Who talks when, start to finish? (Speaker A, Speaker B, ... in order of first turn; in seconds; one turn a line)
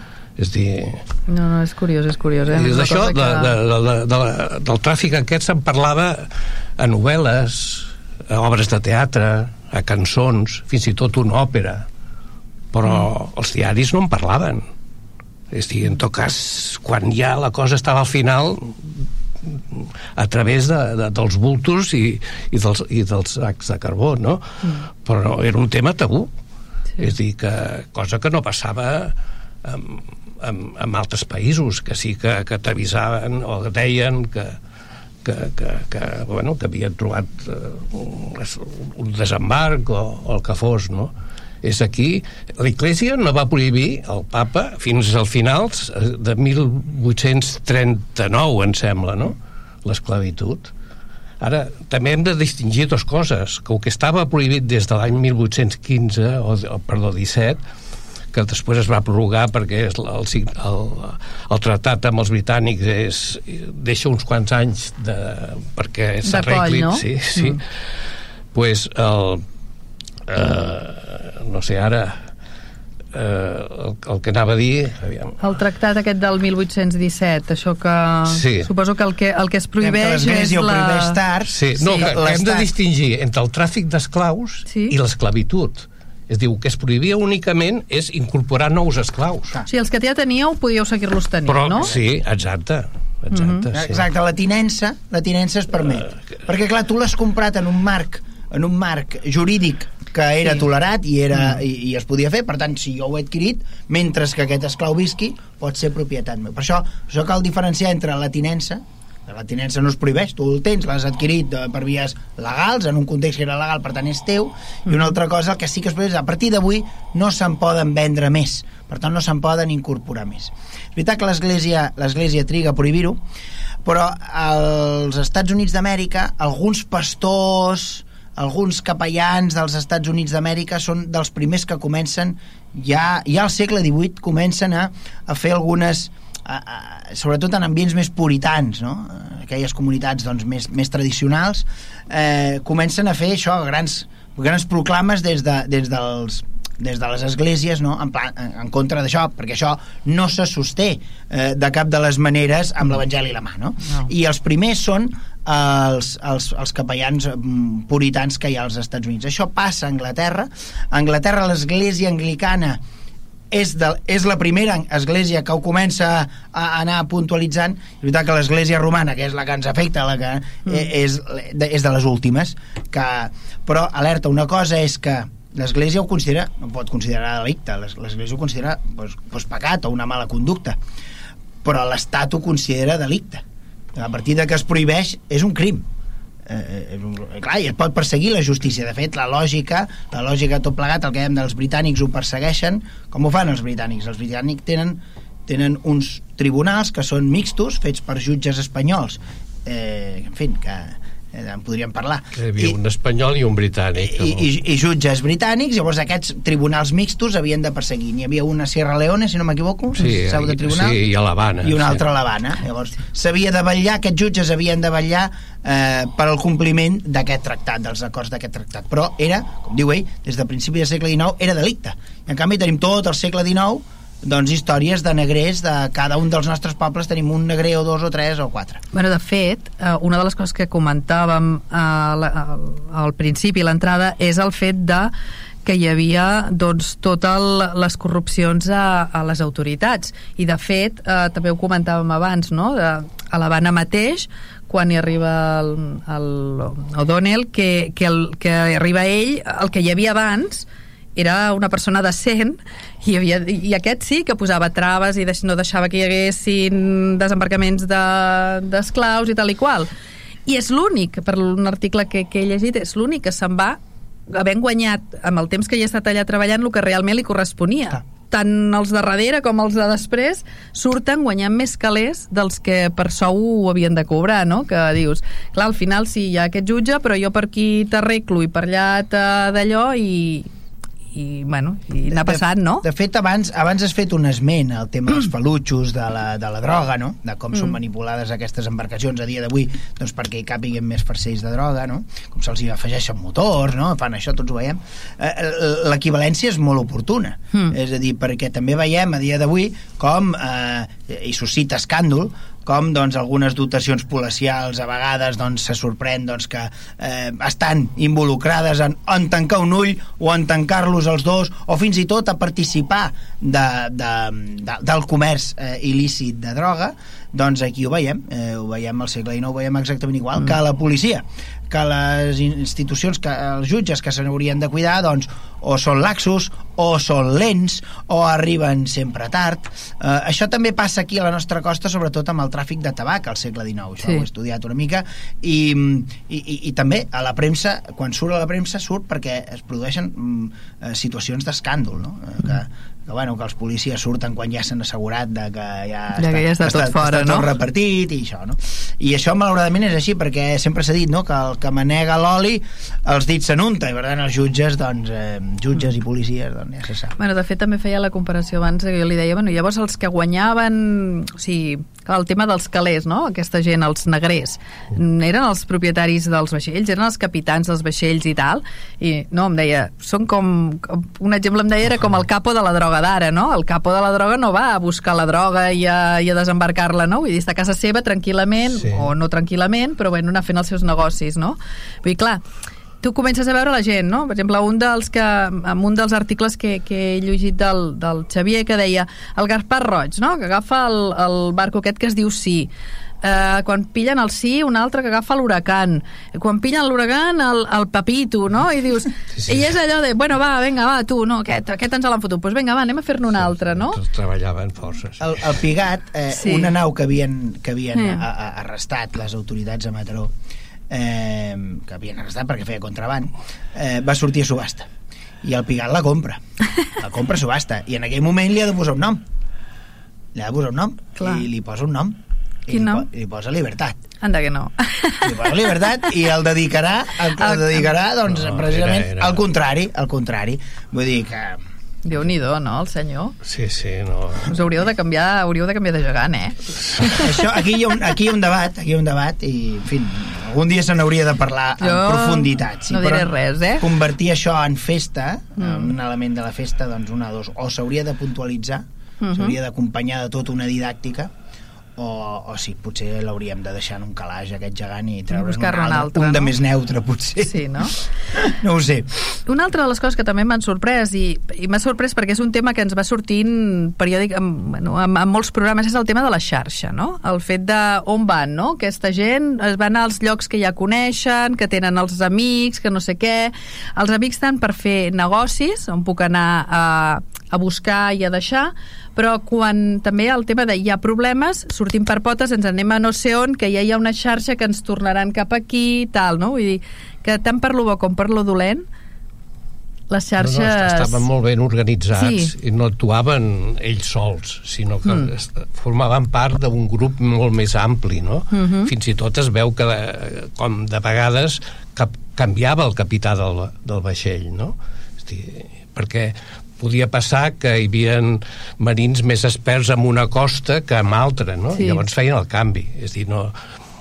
Speaker A: 0.4-1.0
Speaker B: 1.3-3.5
Speaker A: 2.5-11.8
Speaker A: 12.7-14.6
Speaker A: 15.5-26.3
Speaker A: 27.0-34.6
Speaker A: 35.2-50.7
Speaker A: 51.4-57.6
Speaker A: 58.3-67.6
Speaker B: 66.2-67.6
Speaker A: 68.5-69.4
Speaker A: 70.3-72.2
Speaker A: 73.1-75.4
Speaker B: 75.4-81.2
Speaker A: 78.3-78.7
Speaker C: 79.8-82.7
Speaker A: 81.5-89.5
Speaker B: 81.8-82.1
Speaker B: 84.7-85.0
Speaker B: 89.7-91.9
Speaker A: 91.5-94.0
Speaker B: 93.3-93.7
Speaker C: 93.7-123.2
Speaker C: 123.8-162.8
Speaker C: 163.5-180.8
Speaker C: 181.6-183.4
Speaker C: 183.9-185.8
Speaker C: 186.5-202.8
Speaker A: 202.4-204.4
Speaker C: 203.9-211.0
Speaker A: 210.0-212.0
Speaker C: 211.6-228.8
Speaker B: 228.9-235.1
Speaker B: 235.6-259.9
Speaker B: 260.4-280.5
Speaker B: 281.1-282.9
Speaker C: 282.1-357.2
Speaker B: 346.1-347.5
Speaker B: 357.2-382.4
Speaker A: 378.7-379.1
Speaker B: 383.0-392.7
Speaker B: 393.2-404.0
Speaker A: 403.7-405.4
Speaker C: 405.2-410.3
Speaker B: 406.3-406.7
Speaker B: 407.9-408.2
Speaker C: 410.9-414.9
Speaker C: 415.4-416.4
Speaker C: 416.9-419.2
Speaker C: 420.3-424.0
Speaker B: 421.2-421.4
Speaker B: 422.7-423.1
Speaker B: 424.2-425.9
Speaker C: 425.2-431.6
Speaker B: 427.4-427.8
Speaker A: 428.3-429.4
Speaker B: 432.0-433.3
Speaker A: 433.4-434.5
Speaker B: 434.5-437.2
Speaker C: 437.1-451.3
Speaker B: 441.8-443.8
Speaker B: 445.6-445.9
Speaker B: 449.2-449.6
Speaker C: 452.0-459.1
Speaker B: 455.3-456.5
Speaker B: 457.4-457.9
Speaker B: 459.5-488.8
Speaker B: 490.1-491.2
Speaker A: 490.4-513.5
Speaker B: 492.1-492.5
Speaker B: 498.5-498.9
Speaker B: 511.7-512.0